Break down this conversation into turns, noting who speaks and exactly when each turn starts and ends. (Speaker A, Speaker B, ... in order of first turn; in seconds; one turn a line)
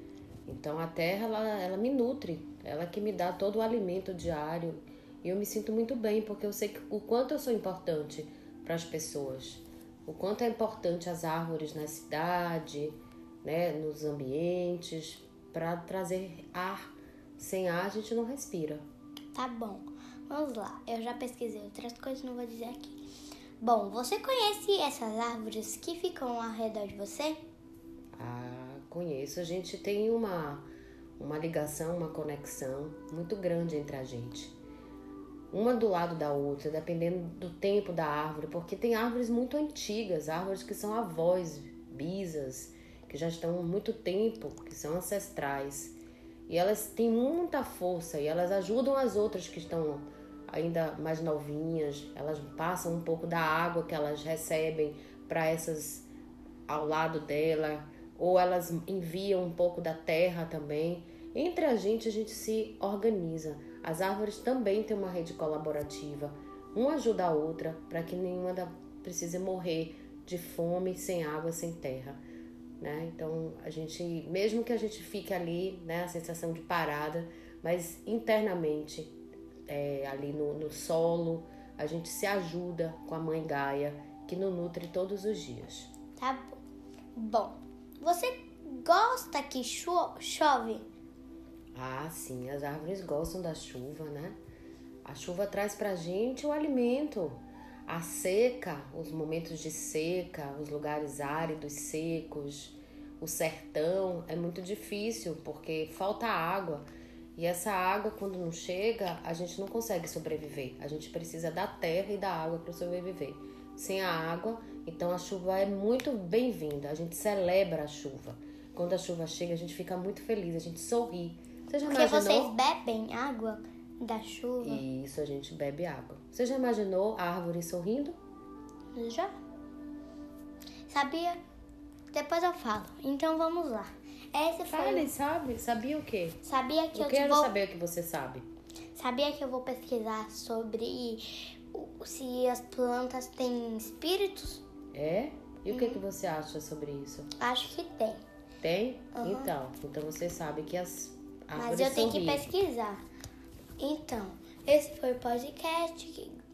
Speaker A: 0.5-18.8
Speaker B: 19.3-23.0
Speaker B: 23.6-27.4
Speaker A: 28.2-34.5
Speaker A: 35.5-45.9
Speaker A: 46.5-56.1
Speaker A: 56.7-72.2
Speaker A: 72.8-79.2
Speaker A: 79.7-85.9
Speaker B: 86.2-86.6
Speaker B: 87.2-90.9
Speaker A: 91.7-94.3
Speaker A: 95.0-122.5
Speaker B: 121.9-124.8
Speaker A: 124.6-128.2
Speaker B: 128.9-129.3
Speaker B: 130.9-131.4
Speaker B: 132.1-135.1
Speaker A: 134.7-136.4
Speaker B: 136.4-137.5
Speaker A: 136.9-138.5
Speaker B: 138.9-144.6
Speaker A: 144.9-147.3
Speaker B: 145.7-146.0
Speaker B: 147.4-148.2
Speaker A: 148.6-152.4
Speaker B: 149.2-149.5
Speaker B: 151.6-153.0
Speaker B: 153.8-156.4